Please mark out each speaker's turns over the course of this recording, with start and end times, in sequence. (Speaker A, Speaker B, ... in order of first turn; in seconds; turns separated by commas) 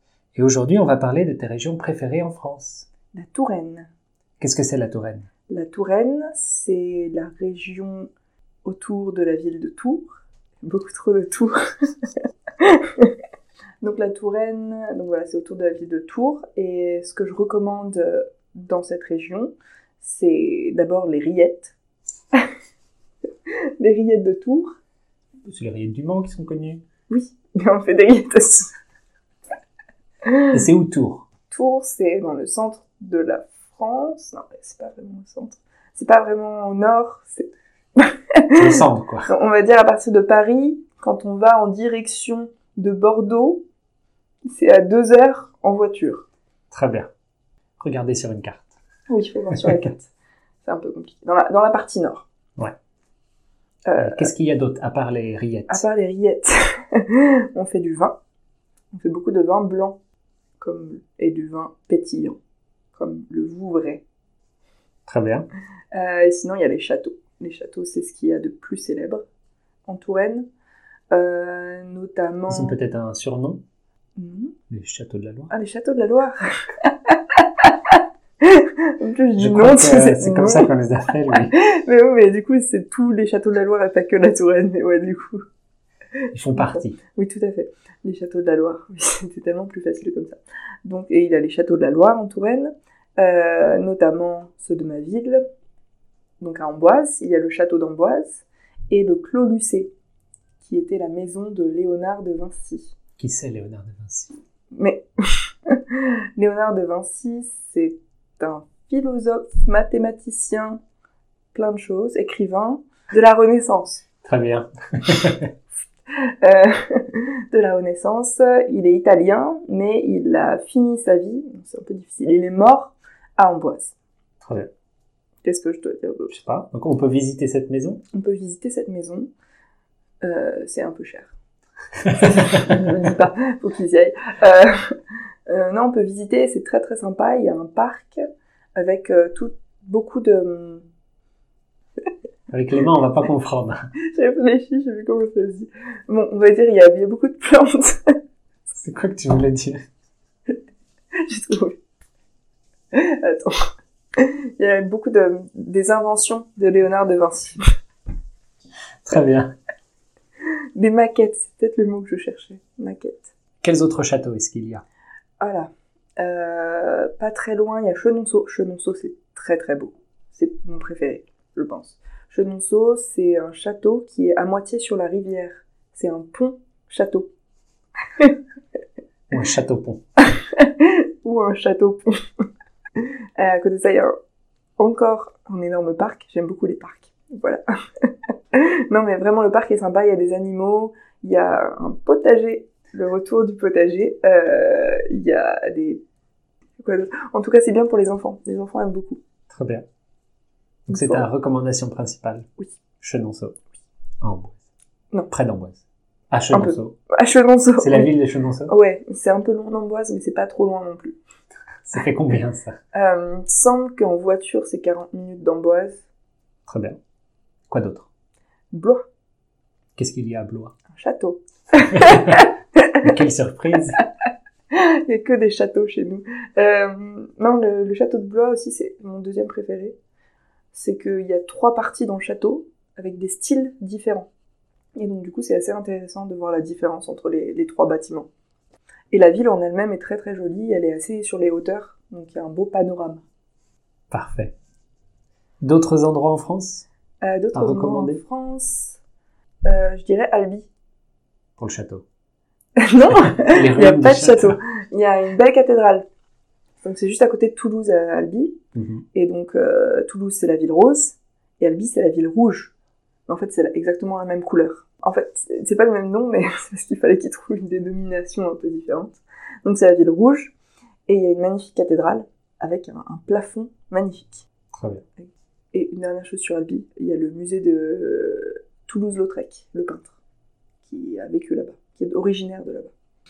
Speaker A: 0.3-2.9, Speaker B: 3.1-3.9, Speaker A: 4.4-5.3, Speaker B: 5.5-8.1, Speaker B: 8.6-13.1, Speaker B: 13.8-21.7, Speaker B: 23.8-24.8, Speaker A: 25.4-26.8, Speaker B: 27.1-28.7, Speaker B: 30.2-30.6, Speaker A: 30.5-31.2, Speaker B: 31.5-43.6, Speaker A: 38.5-39.3, Speaker B: 44.5-46.2, Speaker A: 46.7-47.1, Speaker A: 47.8-48.7, Speaker B: 49.1-50.1, Speaker B: 50.6-52.3, Speaker B: 53.9-54.3, Speaker A: 54.0-55.8, Speaker B: 55.7-58.2, Speaker B: 58.9-60.0, Speaker B: 60.6-62.4, Speaker B: 62.9-64.0, Speaker A: 65.1-65.5, Speaker B: 65.9-69.2, Speaker B: 69.8-70.5, Speaker B: 71.1-72.8, Speaker A: 72.5-73.6, Speaker B: 74.2-74.5, Speaker A: 74.7-75.5, Speaker B: 75.5-80.7, Speaker A: 79.3-81.5, Speaker B: 81.3-85.4, Speaker A: 86.3-87.0, Speaker B: 86.5-95.4, Speaker B: 96.4-99.9, Speaker B: 100.6-103.0, Speaker A: 103.2-104.4, Speaker B: 104.7-110.8, Speaker B: 111.5-114.0, Speaker A: 114.2-115.5, Speaker B: 116.4-123.9, Speaker A: 124.4-124.7, Speaker B: 125.4-126.3, Speaker A: 126.3-128.0, Speaker B: 128.1-129.3, Speaker B: 130.2-131.3, Speaker A: 132.1-132.8, Speaker B: 132.2-134.9, Speaker B: 135.5-138.2, Speaker B: 138.8-140.8, Speaker A: 142.5-143.8, Speaker B: 144.1-148.1, Speaker A: 148.7-149.8, Speaker B: 151.3-151.8, Speaker B: 152.9-153.6, Speaker B: 154.2-157.6, Speaker A: 159.0-159.5, Speaker B: 160.8-163.3, Speaker A: 163.6-164.8, Speaker B: 165.4-177.3, Speaker A: 179.3-180.0, Speaker B: 180.4-182.2, Speaker B: 183.0-184.1, Speaker B: 184.8-187.6, Speaker B: 188.5-196.0, Speaker B: 196.8-199.2, Speaker A: 199.5-199.8, Speaker A: 200.9-202.4, Speaker B: 200.9-201.3, Speaker A: 203.0-203.6, Speaker A: 204.2-204.6, Speaker A: 205.3-206.9, Speaker B: 206.5-208.1, Speaker A: 207.8-208.7, Speaker B: 208.7-211.2, Speaker A: 211.9-212.8, Speaker B: 212.9-216.0, Speaker A: 216.7-217.0, Speaker A: 217.7-218.1, Speaker B: 218.7-219.0, Speaker A: 220.0-220.7, Speaker B: 220.9-223.0, Speaker A: 221.9-222.5, Speaker A: 223.0-224.0, Speaker B: 224.7-230.0, Speaker B: 230.7-234.3, Speaker B: 234.9-238.3, Speaker B: 239.1-243.2, Speaker A: 244.1-244.5, Speaker A: 245.6-246.8, Speaker B: 247.2-249.0, Speaker A: 247.5-248.2, Speaker B: 249.7-250.7, Speaker A: 251.6-252.0, Speaker B: 252.8-256.1, Speaker A: 253.1-254.6, Speaker B: 256.8-258.6, Speaker A: 258.7-259.0, Speaker B: 259.1-262.7, Speaker B: 263.3-270.6, Speaker B: 271.1-274.5, Speaker A: 274.7-275.0, Speaker B: 275.2-280.1, Speaker B: 280.8-282.9